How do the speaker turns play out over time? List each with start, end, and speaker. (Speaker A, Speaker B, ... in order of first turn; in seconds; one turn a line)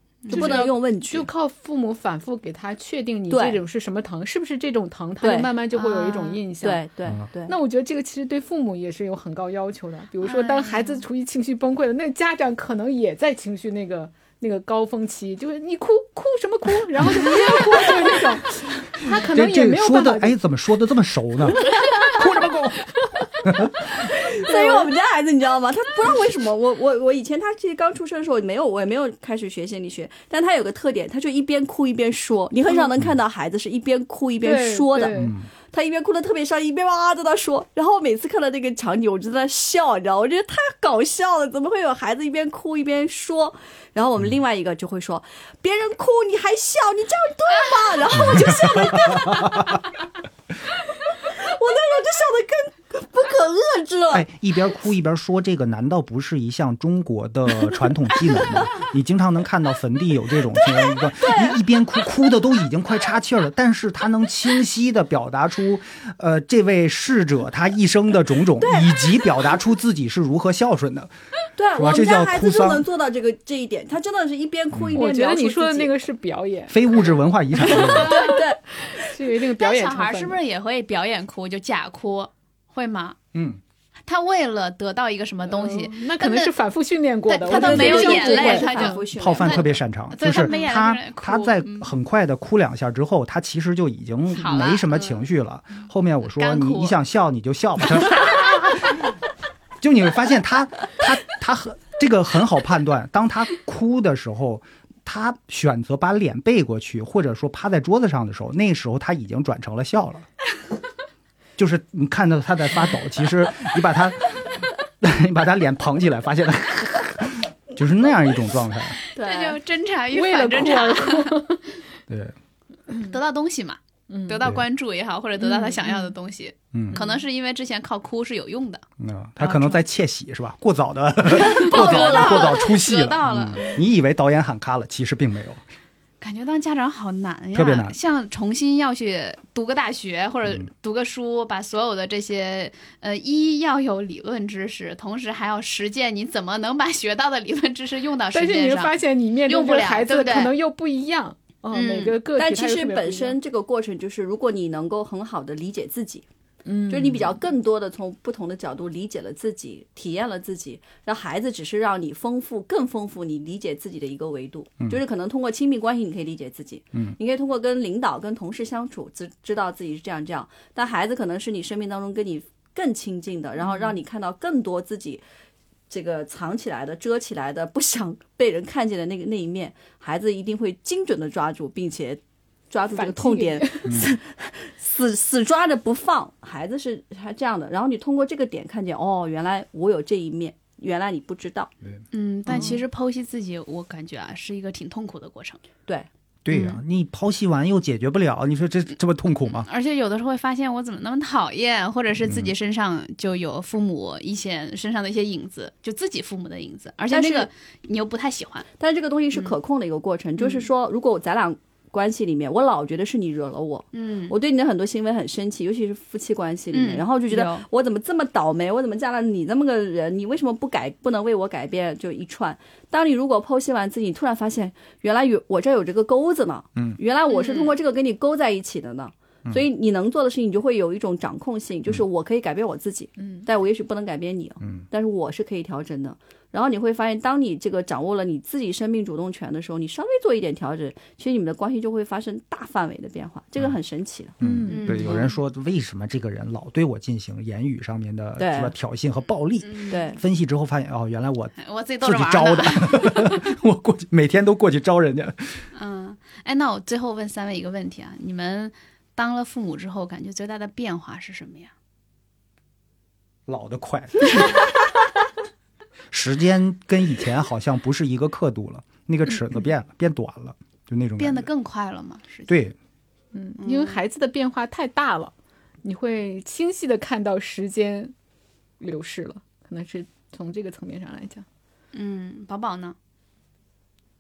Speaker A: 0.2-0.6
Speaker B: 0.3-1.3
Speaker C: 0.3-6.8
Speaker B: 3.3-3.6
Speaker B: 5.2-5.6
Speaker A: 5.7-6.4
Speaker B: 6.6-7.6
Speaker C: 7.5-20.4
Speaker A: 10.2-11.1
Speaker B: 17.4-18.0
Speaker D: 19.1-22.9
Speaker C: 21.7-22.5
Speaker D: 23.4-23.8
Speaker B: 23.9-49.8
Speaker C: 24.4-24.9
Speaker C: 34.4-35.3
Speaker D: 35.1-35.5
Speaker D: 48.2-49.4
Speaker B: 51.1-54.3
Speaker D: 54.1-71.1
Speaker B: 61.1-61.6
Speaker B: 68.6-69.2
Speaker B: 71.6-75.9
Speaker D: 71.8-72.8
Speaker D: 74.7-75.0
Speaker C: 74.9-76.8
Speaker D: 76.7-78.1
Speaker C: 77.5-80.4
Speaker B: 77.7-78.6
Speaker A: 79.6-83.2
Speaker D: 83.3-83.6
Speaker A: 84.1-86.5
Speaker C: 85.4-89.0
Speaker A: 87.3-91.9
Speaker B: 87.5-89.6
Speaker D: 89.2-98.8
Speaker A: 94.3-95.2
Speaker A: 96.4-97.0
Speaker D: 99.8-110.3
Speaker D: 111.6-119.0
Speaker A: 119.0-121.4
Speaker B: 119.1-119.6
Speaker C: 120.1-121.8
Speaker D: 122.1-122.4
Speaker A: 122.9-128.8
Speaker C: 124.1-124.4
Speaker C: 125.4-126.2
Speaker D: 126.7-127.0
Speaker C: 126.9-127.2
Speaker D: 129.0-135.6
Speaker C: 129.4-129.8
Speaker A: 131.3-133.8
Speaker B: 131.6-132.5
Speaker A: 136.2-150.5
Speaker D: 137.5-138.0
Speaker C: 148.3-153.4
Speaker A: 151.7-152.2
Speaker B: 152.4-156.2
Speaker C: 156.7-157.3
Speaker B: 156.9-175.2
Speaker C: 173.6-173.9
Speaker B: 175.9-191.7
Speaker C: 182.9-184.0
Speaker A: 192.1-195.6
Speaker C: 192.5-192.8
Speaker D: 196.4-199.7
Speaker A: 196.5-196.8
Speaker A: 199.6-208.7
Speaker D: 202.2-202.5
Speaker B: 207.1-207.5
Speaker B: 208.8-244.4
Speaker A: 210.4-210.7
Speaker A: 213.9-214.3
Speaker A: 216.7-217.7
Speaker A: 227.3-227.7
Speaker D: 234.6-234.9
Speaker D: 244.4-255.7
Speaker C: 244.4-245.2
Speaker A: 244.7-245.4
Speaker B: 248.4-248.7
Speaker A: 249.6-250.0
Speaker B: 249.9-250.2
Speaker A: 251.6-253.4
Speaker A: 255.8-261.7
Speaker D: 263.5-264.7
Speaker D: 266.1-271.5
Speaker A: 271.2-272.5
Speaker D: 272.5-272.8
Speaker C: 273.3-275.3
Speaker A: 273.6-274.0
Speaker C: 275.8-278.1
Speaker C: 278.8-281.4
Speaker A: 281.9-283.0